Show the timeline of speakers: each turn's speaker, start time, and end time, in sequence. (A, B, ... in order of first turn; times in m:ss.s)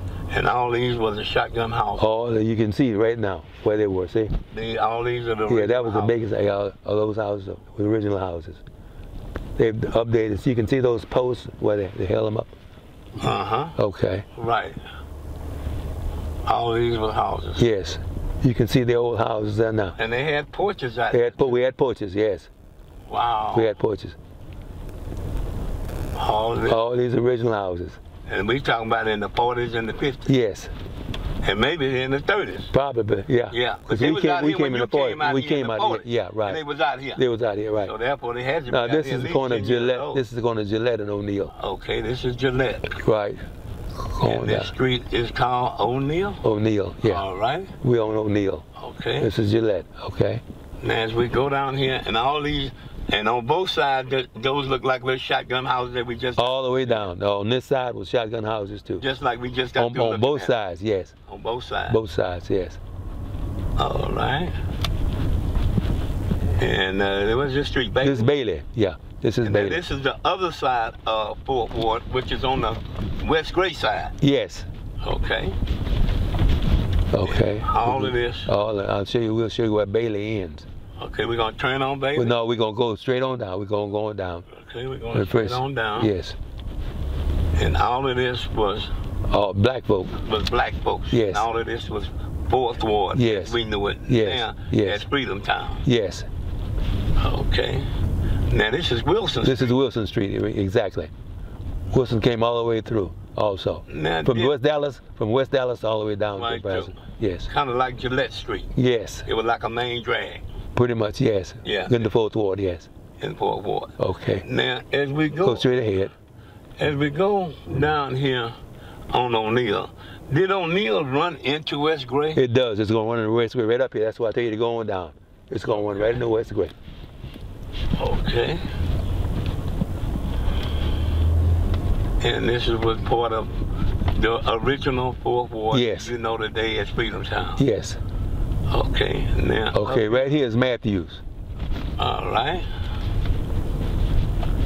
0:00.3-0:02.0 A
0:02.0-0:04.3 B
0:04.5-0:06.2 A
0:05.5-0:08.6 B
0:09.6-0:12.5 B
0:13.2-0:13.8 A
0:13.8-0:14.2 B
0:14.4-0:14.8 A
0:16.4-0:17.6 A
0:17.6-0:20.0 B
0:20.0-0:21.5 A
0:21.1-0:22.5 B
0:23.1-0:23.7 A
0:23.5-0:24.2 B
0:26.2-0:26.8 A
0:26.7-0:28.0 B
0:28.3-0:30.3 A
0:30.3-0:30.7 B
0:31.4-0:32.7 A
0:32.7-0:36.6 B
0:33.5-0:37.2 A
0:37.2-0:37.9 B
0:37.8-0:40.2 A
0:38.7-0:41.5 B
0:41.5-0:43.0 A
0:43.0-0:43.4 B
0:44.0-0:44.7 B
0:44.2-0:46.4 A
0:46.4-0:47.2 B
0:47.0-0:47.7 A
0:47.8-0:48.6 B
0:48.8-0:49.3 A
0:49.2-0:50.4 B
0:50.8-0:57.0 A
0:56.4-0:59.0 B
0:59.0-1:00.5 A
0:59.8-1:01.1 B
1:01.3-1:02.0 A
1:01.9-1:02.8 B
1:03.8-1:04.5 A
1:06.5-1:08.3 A
1:08.0-1:09.8 B
1:09.4-1:14.1 A
1:14.2-1:14.7 B
1:15.0-1:15.6 A
1:17.1-1:20.6 B
1:17.2-1:18.5 A
1:21.0-1:22.3 A
1:22.2-1:24.4 B
1:24.5-1:26.1 A
1:25.1-1:26.4 B
1:27.5-1:28.9 A
1:29.3-1:30.2 B
1:30.1-1:35.8 A
1:31.1-1:31.4 B
1:33.1-1:33.6 B
1:34.1-1:35.0 B
1:35.8-1:36.3 B
1:37.2-1:37.9 A
1:38.5-1:39.7 A
1:39.4-1:41.1 B
1:41.9-1:47.5 B
1:43.9-1:44.5 A
1:46.3-1:48.7 A
1:48.7-1:49.3 B
1:49.2-1:50.4 A
1:50.7-1:52.9 B
1:51.6-1:52.0 A
1:53.2-1:55.7 A
1:54.0-1:54.4 B
1:55.4-1:56.1 B
1:56.8-1:58.5 A
1:59.1-2:02.4 A
2:02.3-2:06.7 B
2:08.0-2:08.6 A
2:12.2-2:17.6 A
2:15.7-2:16.1 B
2:17.6-2:18.0 B
2:18.7-2:20.2 A
2:19.7-2:21.2 B
2:22.0-2:22.7 A